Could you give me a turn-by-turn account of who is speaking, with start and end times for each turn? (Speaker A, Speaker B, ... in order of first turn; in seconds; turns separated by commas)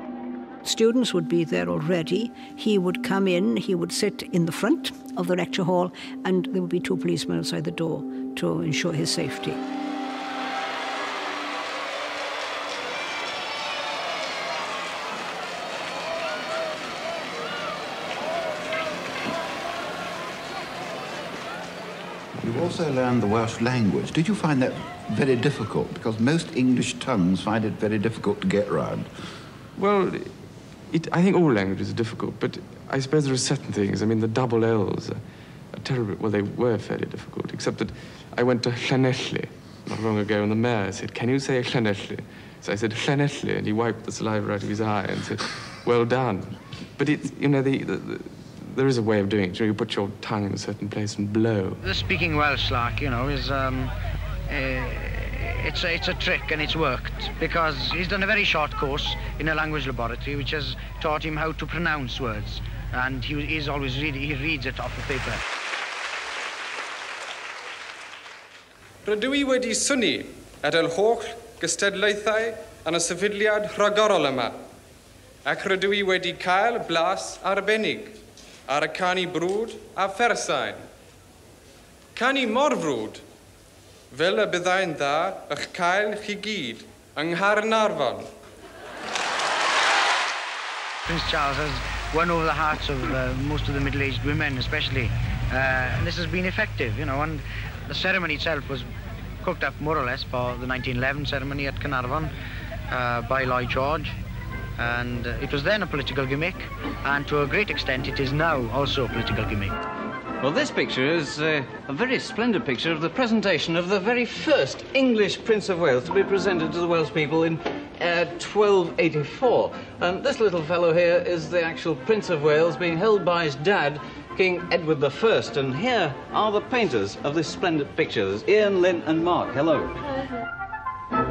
Speaker A: 0.6-9.6, Speaker B: 22.4-29.1, Speaker C: 29.8-51.8, Speaker D: 51.8-53.9, Speaker D: 54.5-65.4, Speaker E: 69.1-74.6, Speaker E: 75.5-78.1, Speaker E: 78.7-80.8, Speaker E: 82.2-83.2, Speaker E: 84.1-88.2, Speaker D: 91.1-98.9, Speaker D: 99.5-102.3, Speaker D: 102.9-104.1, Speaker D: 104.8-109.7, Speaker F: 110.4-130.0